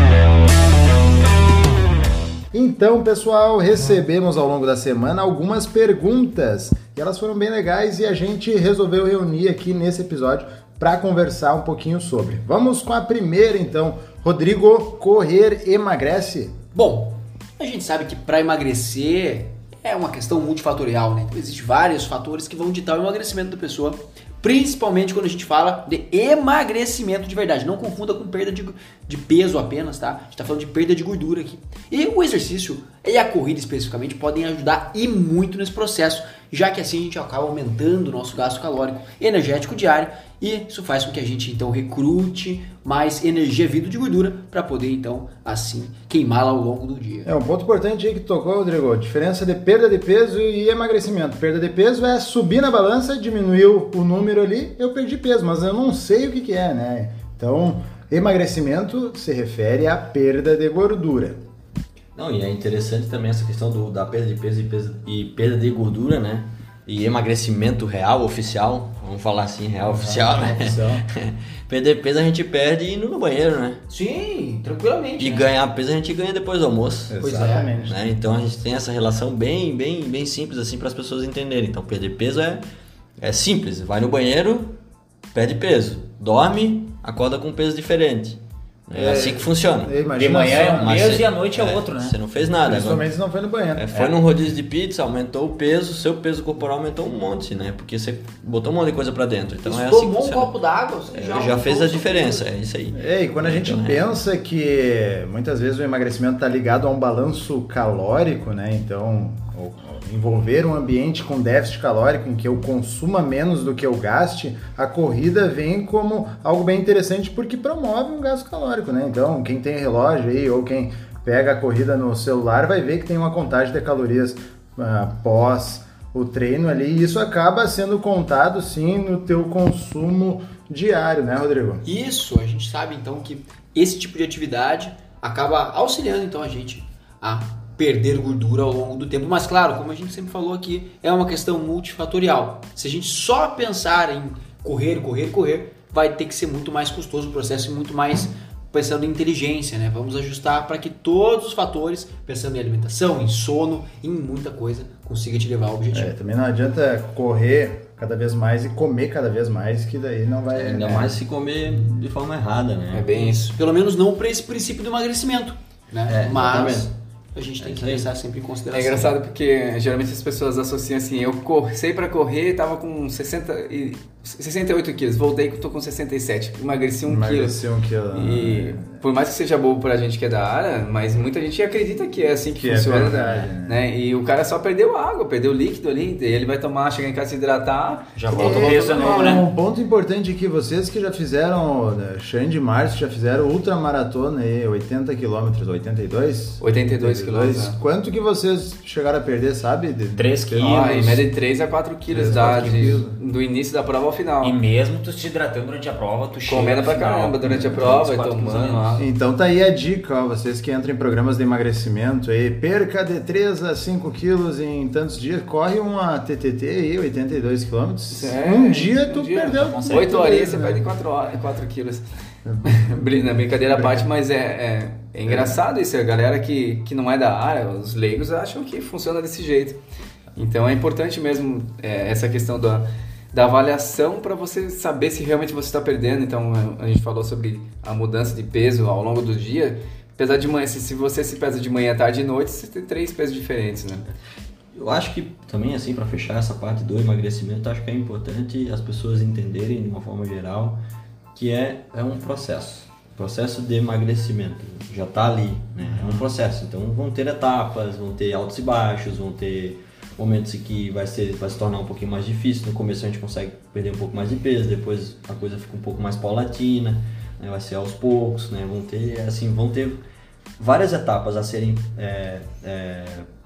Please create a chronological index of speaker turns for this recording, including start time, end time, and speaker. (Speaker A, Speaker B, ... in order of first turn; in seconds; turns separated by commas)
Speaker A: 2.5-16.5, Speaker B: 16.7-47.3, Speaker A: 47.2-61.4, Speaker C: 62.2-73.8, Speaker A: 69.8-71.0, Speaker B: 73.9-75.5, Speaker C: 75.2-77.2, Speaker A: 77.1-78.0, Speaker B: 77.2-77.9, Speaker C: 77.9-82.6, Speaker C: 83.2-84.8, Speaker C: 85.3-90.0, Speaker A: 88.9-91.0, Speaker D: 90.1-92.2, Speaker C: 90.6-93.1, Speaker A: 92.6-94.2, Speaker C: 93.8-100.6, Speaker B: 99.7-102.5, Speaker C: 101.1-104.2, Speaker A: 102.9-131.8, Speaker B: 131.8-156.1, Speaker A: 155.9-161.1, Speaker C: 160.5-163.1, Speaker E: 160.8-161.2, Speaker E: 162.9-163.5, Speaker B: 163.1-169.1, Speaker C: 166.1-166.9, Speaker C: 167.6-168.1, Speaker E: 168.7-177.6, Speaker A: 177.1-178.9, Speaker E: 178.1-188.7, Speaker A: 182.6-183.8, Speaker D: 188.2-189.5, Speaker A: 188.3-200.9, Speaker E: 196.6-197.8, Speaker D: 200.2-201.2, Speaker E: 200.5-204.6, Speaker A: 202.1-203.2, Speaker D: 204.4-209.0, Speaker E: 206.4-209.1, Speaker A: 209.0-220.9, Speaker E: 218.1-222.1, Speaker D: 219.5-220.3, Speaker A: 222.4-224.1, Speaker E: 222.6-229.8, Speaker E: 230.4-244.1, Speaker C: 244.7-250.8, Speaker C: 251.3-270.0, Speaker A: 255.8-256.3, Speaker C: 270.6-273.3